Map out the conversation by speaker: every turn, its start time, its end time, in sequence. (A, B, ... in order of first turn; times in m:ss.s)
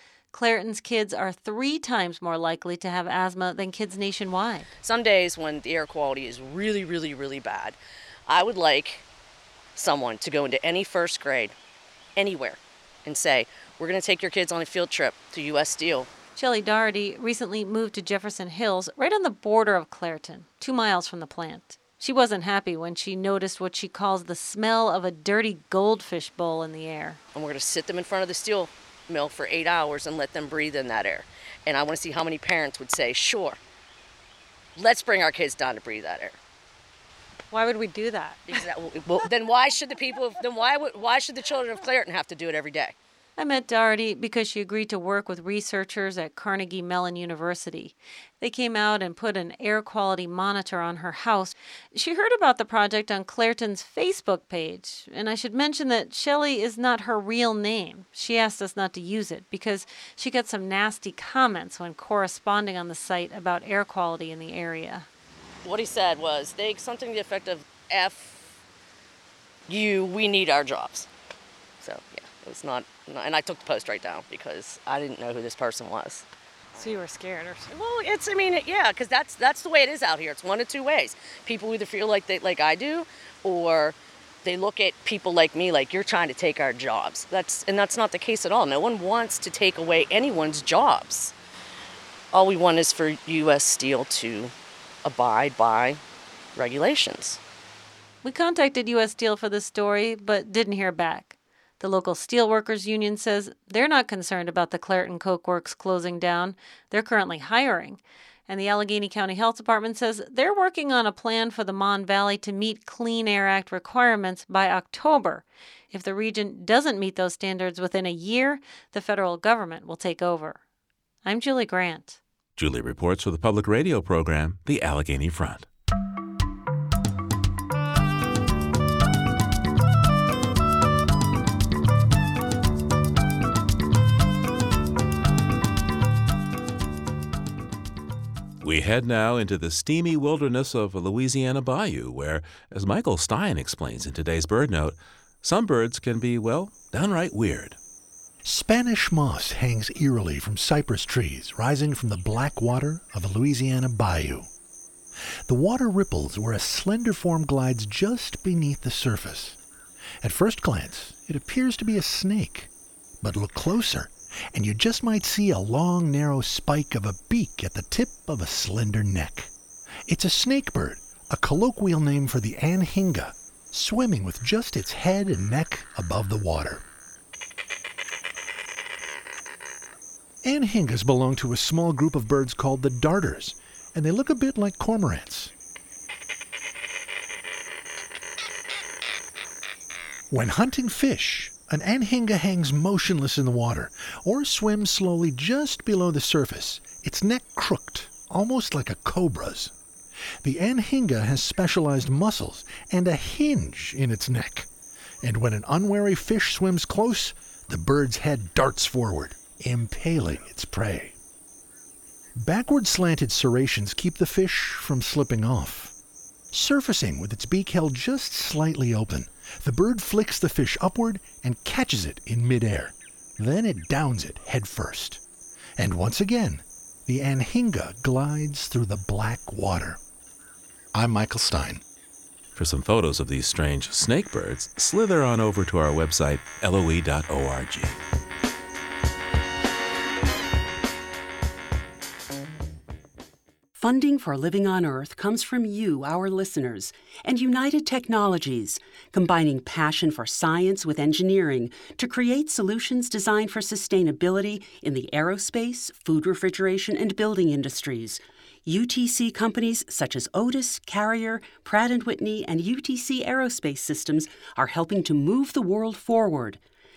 0:00.3-0:04.7 A
0:04.8-0:09.0 B
0:09.8-0:11.5 B
0:12.2-0:16.1 B
0:16.4-0:27.2 A
0:27.3-0:33.6 B
0:34.8-0:36.4 B
0:37.5-0:38.7 A
0:38.5-0:43.0 B
0:43.4-1:05.1 A
1:05.6-1:08.5 B
1:09.7-1:11.1 B
1:11.8-1:16.2 B
1:16.8-1:17.7 A
1:17.7-1:31.3 B
1:32.3-1:34.5 B
1:35.0-1:36.0 B
1:36.6-1:37.4 B
1:38.2-2:00.6 A
2:01.2-2:02.2 A
2:02.6-2:05.7 C
2:18.6-2:27.8 C
2:28.4-2:34.5 D
2:35.5-2:39.6 D
2:40.2-2:42.7 D
2:43.2-2:49.5 D
2:50.1-2:56.8 D
3:00.4-3:05.5 D
3:10.3-3:19.7 D
3:20.4-3:24.7 D
3:25.2-3:31.2 D
3:32.4-3:35.9 D
3:36.5-3:45.2 D
3:45.8-3:50.0 D
3:50.9-3:51.8 D
3:52.6-3:58.0 C
4:03.8-4:26.6 E